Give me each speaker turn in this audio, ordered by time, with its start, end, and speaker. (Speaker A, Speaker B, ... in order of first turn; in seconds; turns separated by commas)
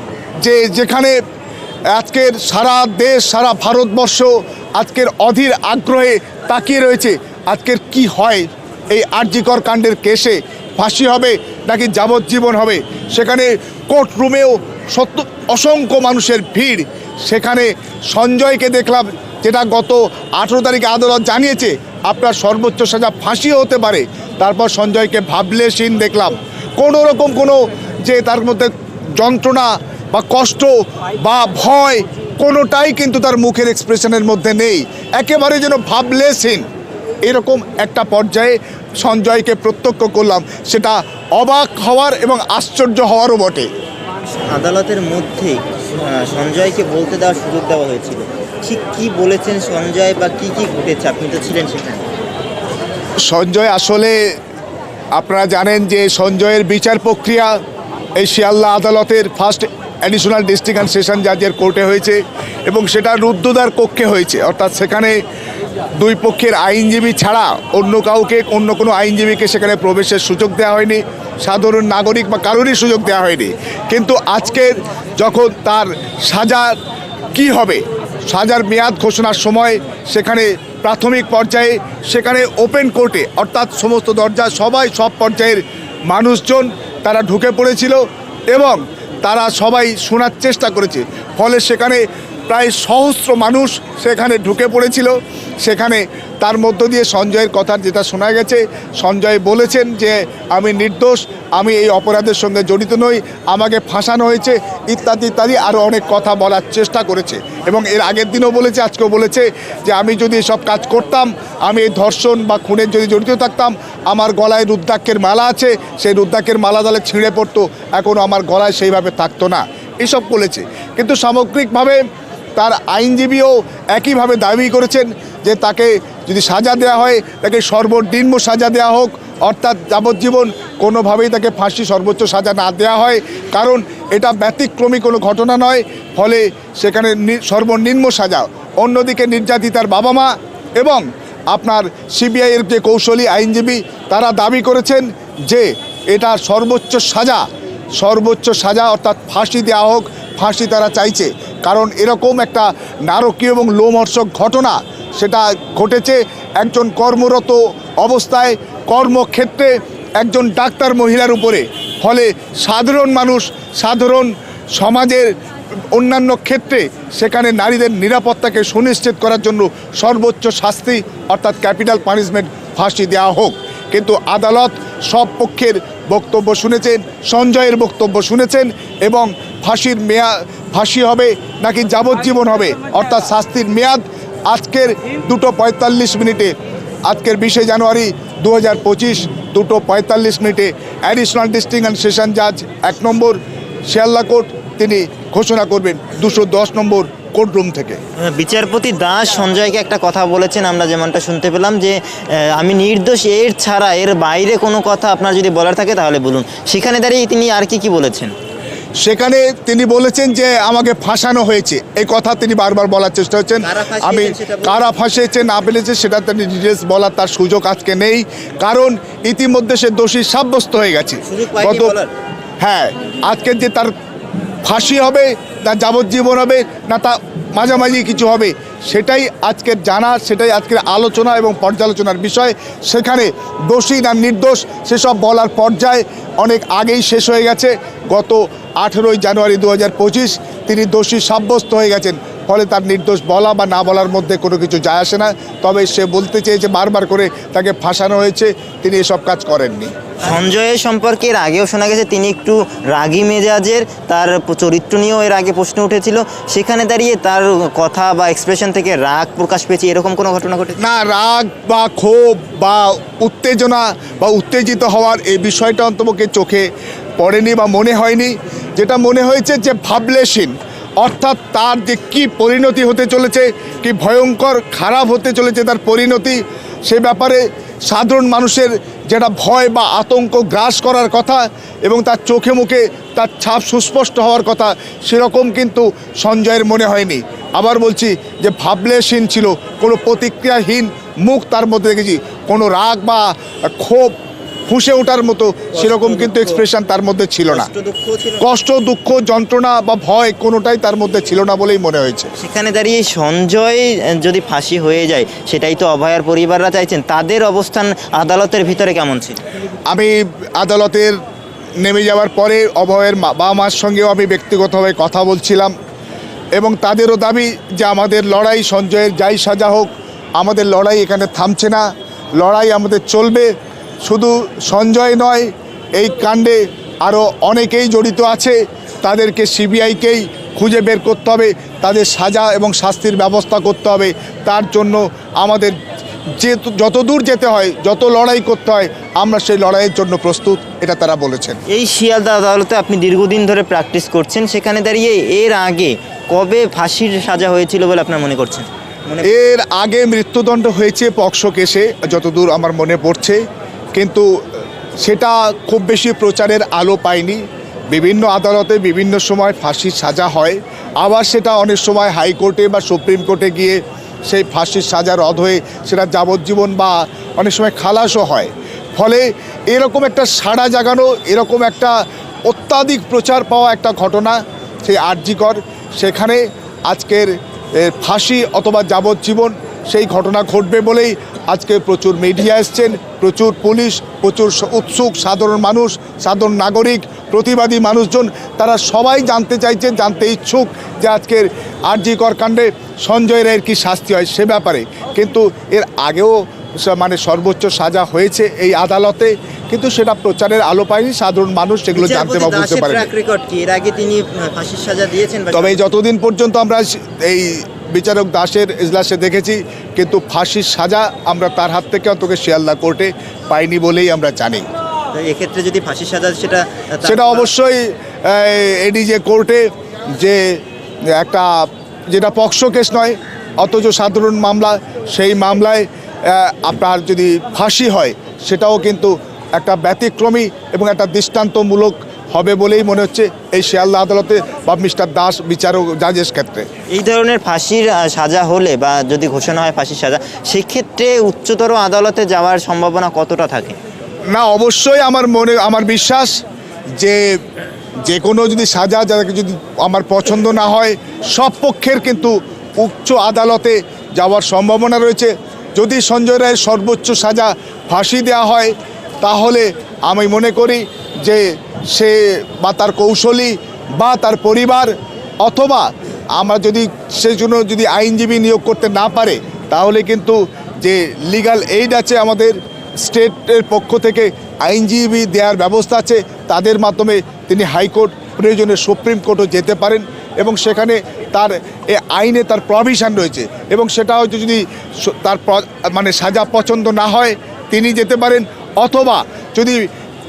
Speaker A: 0.4-1.2, Speaker A: 1.9-36.6, Speaker A: 37.2-43.7, Speaker B: 44.5-52.1, Speaker A: 53.2-54.2, Speaker A: 55.1-57.5, Speaker A: 58.2-65.2, Speaker A: 66.0-76.8, Speaker A: 77.3-122.0, Speaker A: 122.6-147.4, Speaker A: 148.0-165.3, Speaker A: 165.9-186.5, Speaker A: 187.1-198.0, Speaker B: 198.2-208.3, Speaker A: 209.0-221.9, Speaker B: 213.6-214.9, Speaker B: 221.2-222.1, Speaker A: 222.6-223.9, Speaker A: 224.6-249.9, Speaker B: 250.2-260.8, Speaker A: 260.8-294.1, Speaker A: 294.7-297.7, Speaker B: 295.7-296.6, Speaker B: 297.5-298.4, Speaker A: 298.4-302.3, Speaker B: 302.4-309.4, Speaker A: 309.9-311.2, Speaker A: 311.8-315.7, Speaker A: 316.6-323.5, Speaker A: 324.0-335.8, Speaker A: 336.4-341.6, Speaker B: 341.7-349.3, Speaker A: 349.2-353.4, Speaker A: 353.9-354.3, Speaker A: 355.0-403.1, Speaker B: 401.9-405.9, Speaker A: 405.5-414.6, Speaker B: 415.1-417.5, Speaker A: 417.0-420.6, Speaker A: 421.1-436.6, Speaker B: 436.9-443.8, Speaker A: 444.3-446.4, Speaker A: 447.0-447.4, Speaker A: 448.1-464.9, Speaker A: 465.4-489.9